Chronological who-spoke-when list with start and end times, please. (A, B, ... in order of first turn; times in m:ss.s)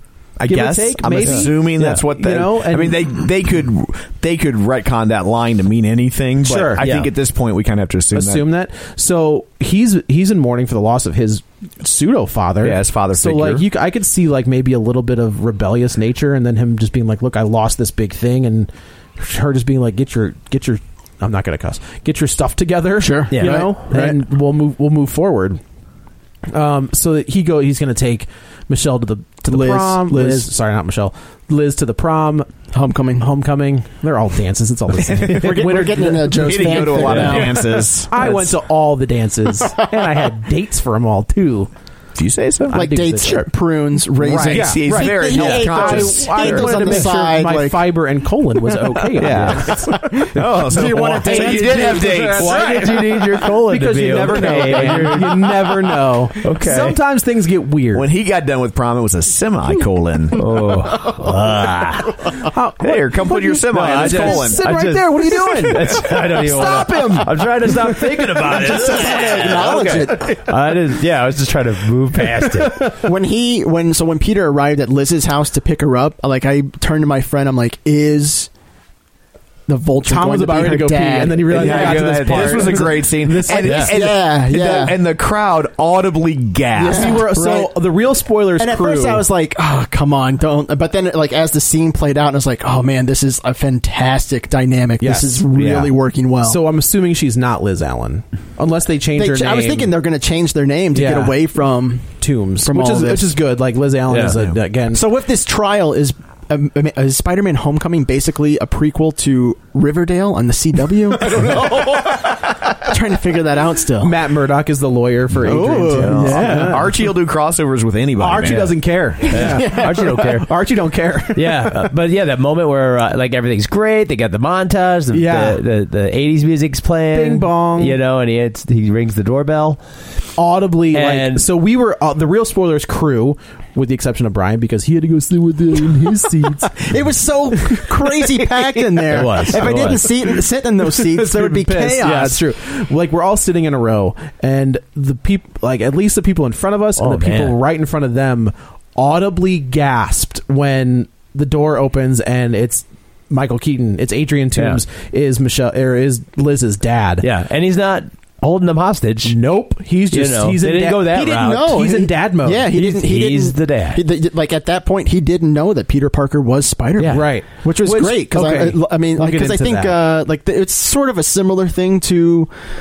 0:00.4-0:08.4 A
0:00.5-0:03.1 B
0:01.2-0:01.5 C
0:06.4-0:06.8 B
0:06.8-0:07.1 C
0:08.1-0:25.6 B
0:12.6-0:13.6 A
0:23.0-0:24.2 D
0:23.3-0:23.7 C
0:26.5-0:32.5 B
0:29.4-0:30.5 D
0:32.7-0:33.3 D
0:33.2-0:41.7 B
0:35.2-0:37.6 D
0:36.3-0:38.5 A
0:42.2-0:42.8 A
0:42.7-0:43.5 B
0:42.7-0:47.9 D
0:44.2-0:46.8 A
0:44.3-0:50.0 B
0:49.2-0:49.7 A
0:49.4-0:49.7 C
0:49.9-0:52.8 D
0:50.3-0:52.6 A
0:50.8-0:55.6 C
0:51.2-0:58.1 B
0:54.6-0:55.0 D
0:56.4-0:57.0 C
0:57.9-1:00.4 A
1:00.3-1:02.3 C
1:02.4-1:08.8 B
1:02.8-1:04.6 A
1:03.7-1:12.9 C
1:08.4-1:10.4 D
1:12.4-1:13.0 B
1:13.0-1:18.5 D
1:19.7-1:22.8 D
1:20.0-1:23.9 B
1:21.5-1:27.2 A
1:21.8-1:22.7 C
1:23.6-1:25.0 D
1:23.6-1:23.9 C
1:26.8-1:27.7 D
1:26.9-1:29.2 B
1:28.6-1:36.6 D
1:35.0-1:35.5 B
1:35.5-1:35.9 A
1:36.4-1:39.9 B
1:39.1-1:42.1 D
1:40.9-1:41.4 B
1:42.2-1:45.0 B
1:42.6-1:43.4 D
1:44.1-1:44.4 C
1:44.9-1:54.1 D
1:54.0-1:57.0 B
1:55.4-1:56.8 D
1:55.9-1:56.6 C
1:56.2-1:58.8 A
1:58.2-2:01.9 B
1:59.3-2:00.5 C
1:59.3-2:00.4 D
2:01.3-2:09.8 C
2:05.1-2:05.6 B
2:07.1-2:08.0 B
2:10.4-2:16.9 B
2:10.9-2:11.5 C
2:16.8-2:22.4 D
2:19.1-2:20.1 C
2:19.6-2:20.1 B
2:21.0-2:37.2 B
2:27.0-2:27.6 C
2:34.5-2:34.8 C
2:37.2-2:39.4 C
2:39.2-2:42.7 B
2:40.1-2:41.8 C
2:41.2-2:52.5 D
2:42.7-2:44.0 C
2:47.0-2:47.3 C
2:47.1-2:49.9 B